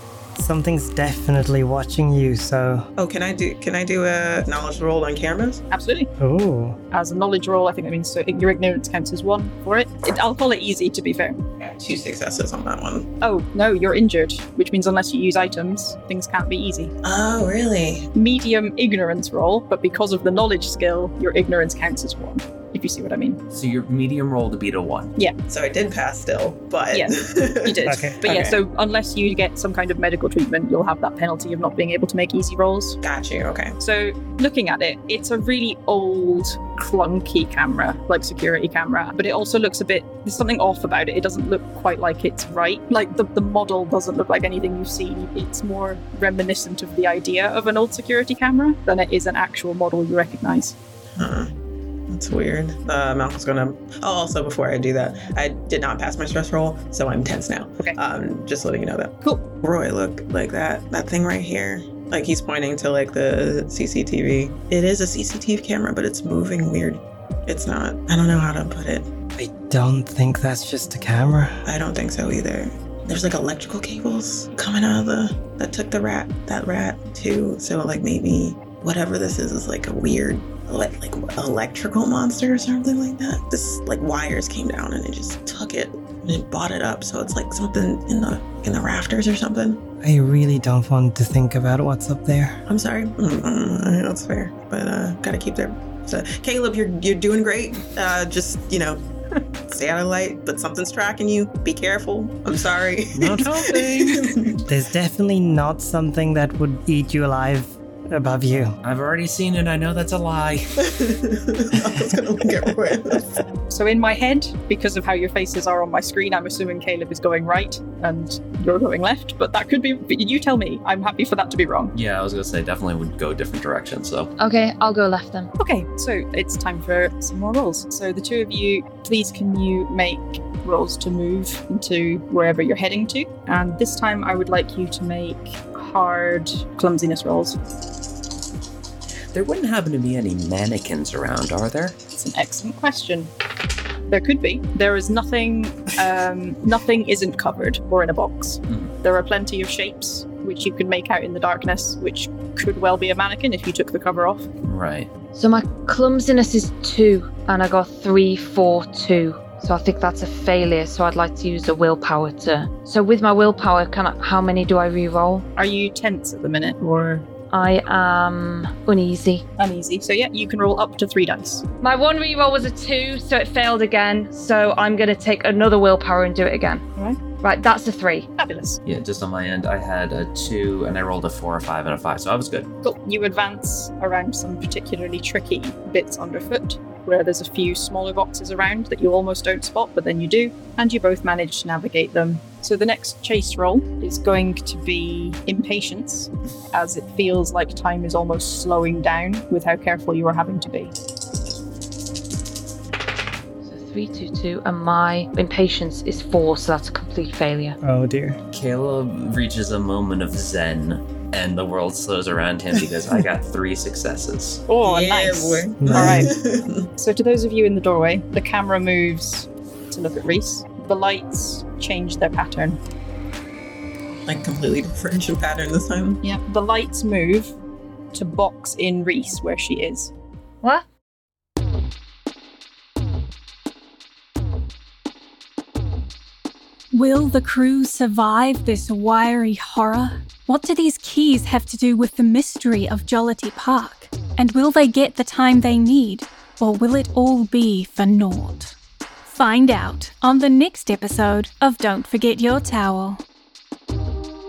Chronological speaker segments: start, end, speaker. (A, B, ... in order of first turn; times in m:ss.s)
0:00.4-0:02.9 A
0:03.0-0:05.6 B
0:05.7-0:06.1 C
0:06.2-0:06.8 A
0:06.9-0:11.4 C
0:11.6-0:13.1 B
0:13.2-0:16.9 C
0:17.0-0:18.1 B
0:18.1-0:23.4 C
0:23.5-0:25.2 D
0:25.5-0:28.6 B
0:26.9-0:33.0 C
0:27.9-0:28.2 A
0:33.0-0:33.8 B
0:33.8-0:50.8 C
0:51.2-0:51.5 B
0:52.1-1:09.1 B
1:09.4-1:11.6 A
1:11.7-1:29.8 B
1:30.0-1:32.6 A
1:32.7-1:39.0 B
1:39.7-1:44.6 B
1:43.1-1:44.3 D
1:44.7-1:48.8 A
1:48.8-1:50.9 D
1:50.8-1:53.4 B
1:53.7-2:01.9 C
2:01.9-2:04.3 D
2:04.4-2:05.5 E
2:05.6-2:17.6 C
2:19.3-2:22.0 D
2:22.1-2:23.3 C
2:24.1-2:34.5 C
2:28.7-2:28.9 D
2:34.6-2:35.1 D
2:35.3-2:45.4 E
2:45.6-2:47.3 C
2:47.5-2:49.4 E
2:49.6-2:51.6 C
2:51.8-2:56.8 E
2:57.4-2:58.3 E
2:58.4-2:58.8 C
2:58.8-3:02.7 D
3:02.8-3:20.9 C
3:23.6-3:27.8 E
3:27.8-3:28.4 A
3:28.5-3:34.7 D
3:34.7-3:36.3 C
3:34.8-3:36.9 B
3:35.8-3:36.3 A
3:37.0-3:42.8 C
3:44.2-3:46.2 B
3:46.2-3:47.5 C
3:48.1-3:50.1 C
3:56.9-4:08.8 F
4:09.3-4:13.2 F